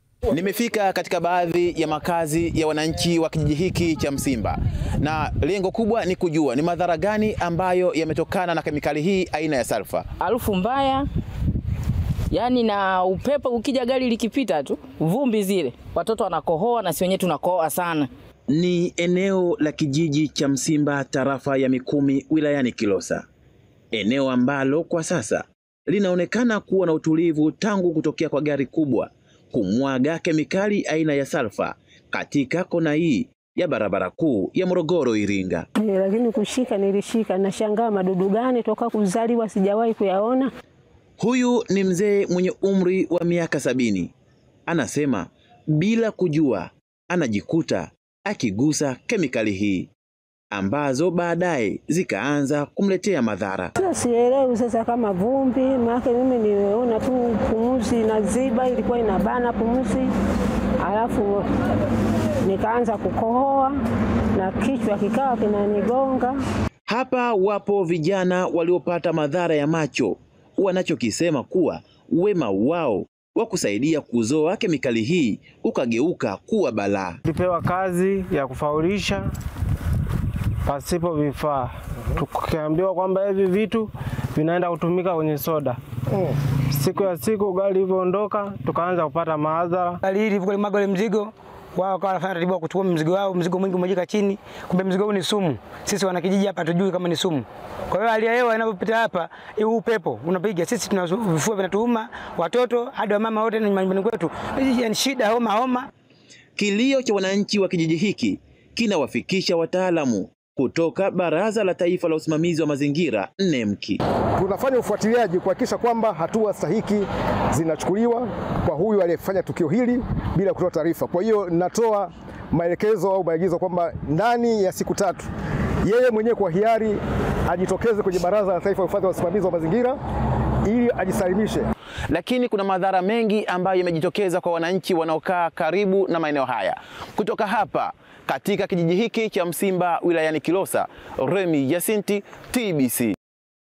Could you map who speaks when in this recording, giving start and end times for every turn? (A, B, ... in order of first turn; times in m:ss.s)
0:00.3-0:10.1 A
0:10.2-0:11.1 B
0:12.3-0:18.1 B
0:18.5-0:23.3 A
0:23.9-0:35.7 A
0:35.8-0:40.5 C
0:41.2-0:44.1 A
0:44.7-0:49.9 A
0:50.5-0:53.7 A
0:53.8-1:00.1 C
1:00.8-1:01.5 C
1:02.4-1:03.8 C
1:04.4-1:06.4 C
1:06.9-1:17.2 A
1:17.2-1:19.3 D
1:20.7-1:25.8 D
1:26.7-1:30.0 D
1:30.0-1:45.9 E
1:46.6-1:54.0 A
1:54.4-2:05.3 F
2:05.8-2:10.0 F
2:10.7-2:11.7 F
2:12.1-2:23.2 A